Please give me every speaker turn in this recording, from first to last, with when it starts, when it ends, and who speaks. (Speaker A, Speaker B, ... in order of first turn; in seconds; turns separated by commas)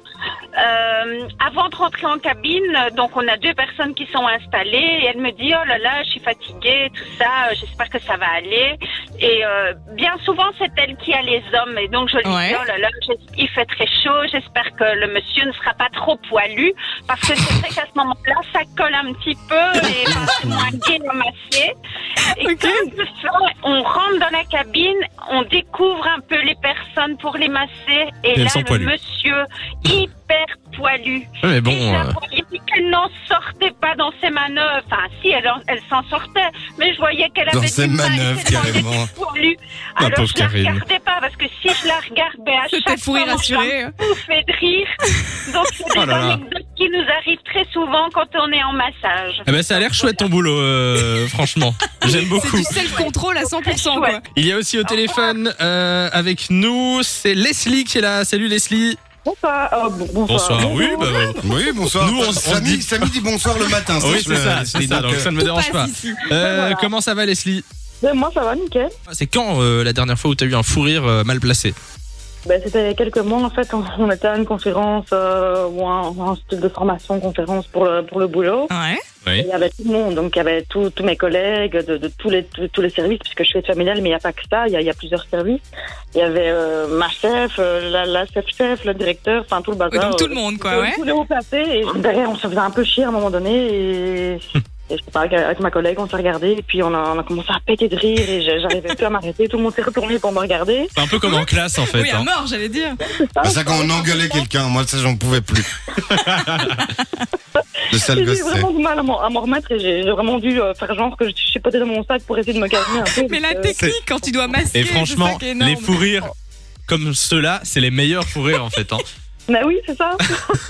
Speaker A: 0.6-50.3, Speaker B: 12.2-12.6, Speaker B: 22.4-22.8, Speaker C: 28.3-28.9, Speaker C: 31.4-32.1, Speaker D: 37.5-39.1, Speaker C: 40.0-40.8, Speaker B: 42.7-43.9, Speaker C: 46.0-46.4, Speaker C: 49.5-52.7, Speaker B: 52.0-54.2, Speaker A: 52.3-54.2, Speaker C: 54.3-59.0, Speaker A: 54.8-55.4, Speaker E: 59.2-61.3, Speaker C: 60.3-61.4, Speaker D: 61.4-65.3, Speaker C: 62.0-63.1, Speaker C: 64.0-67.6, Speaker B: 65.4-66.3, Speaker E: 66.3-66.9, Speaker E: 68.0-68.9, Speaker C: 69.1-71.8, Speaker E: 72.4-78.7, Speaker B: 78.7-79.0, Speaker E: 79.4-85.6, Speaker E: 86.1-100.9, Speaker B: 89.9-91.0, Speaker C: 100.9-102.3, Speaker B: 101.2-103.0, Speaker E: 103.0-104.5, Speaker D: 103.4-105.7, Speaker C: 106.0-106.8, Speaker B: 106.7-107.1, Speaker E: 107.5-113.7, Speaker D: 107.9-108.7, Speaker B: 113.0-116.2, Speaker C: 114.7-116.3, Speaker C: 116.9-119.0, Speaker E: 119.5-120.6